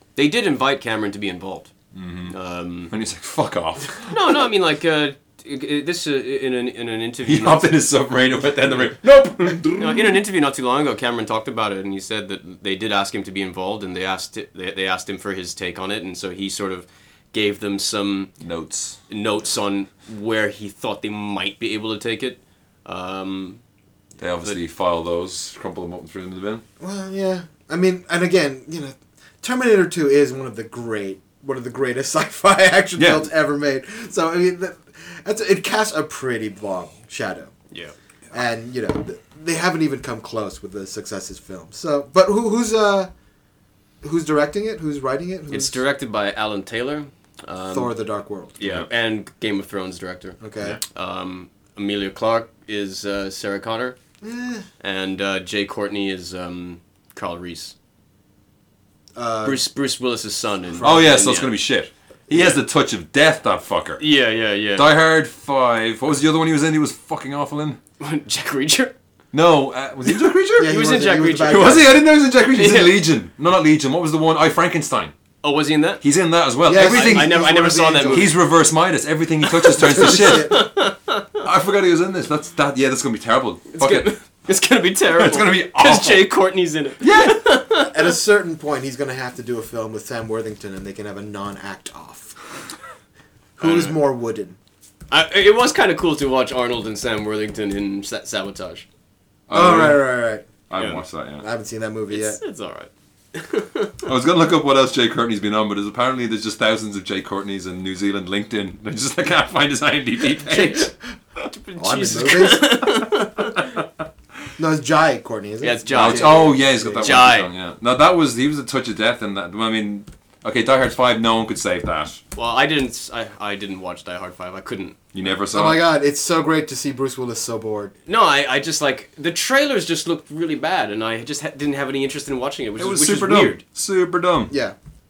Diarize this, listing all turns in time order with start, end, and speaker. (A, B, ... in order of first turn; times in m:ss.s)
0:00.2-0:01.7 A
0:01.9-0:02.3 B
0:02.3-0:02.9 A
0:02.9-0:04.4 B
0:04.1-0:07.7 A
0:07.2-0:10.2 B
0:09.7-0:18.3 A
0:18.4-0:19.0 B
0:19.1-0:23.6 A
0:24.2-0:26.6 B
0:26.8-0:37.5 C
0:33.0-0:33.2 B
0:38.3-0:43.1 C
0:44.0-0:45.8 C
0:45.5-0:48.0 A
0:47.7-0:48.6 C
0:48.6-0:54.0 A
0:50.4-0:50.8 C
0:54.2-0:54.6 C
0:54.8-0:57.7 A
0:59.1-0:59.6 C
0:59.4-1:01.5 A
1:00.8-1:01.1 C
1:00.8-1:04.0 B
1:04.0-1:04.9 A
1:04.7-1:07.8 B
1:08.0-1:08.9 A
1:09.3-1:10.8 B
1:10.6-1:12.0 C
1:10.6-1:13.0 A
1:11.4-1:15.1 B
1:15.4-1:16.0 A
1:16.0-1:20.6 B
1:16.6-1:18.3 C
1:16.7-1:18.3 A
1:19.4-1:21.4 A
1:19.9-1:20.6 C
1:21.4-1:24.1 B
1:23.7-1:28.0 A
1:25.1-1:26.3 B
1:27.0-1:27.4 B
1:27.8-1:32.4 C
1:33.6-1:34.6 C
1:33.6-1:34.0 A
1:35.1-1:38.8 A
1:39.5-1:40.1 B
1:39.5-1:40.5 C
1:40.7-1:41.4 B
1:40.7-1:41.0 A
1:41.4-1:42.4 C
1:42.1-1:44.0 A
1:44.0-1:50.9 B
1:50.2-1:50.9 A
1:51.4-1:53.8 A
1:51.8-1:52.9 C
1:54.6-1:57.3 C
1:55.6-1:57.5 A
1:55.9-2:02.2 B
2:02.3-2:05.0 A
2:05.1-2:05.8 B
2:05.5-2:07.9 C
2:08.1-2:13.6 A
2:12.8-2:14.5 B
2:14.5-2:14.8 C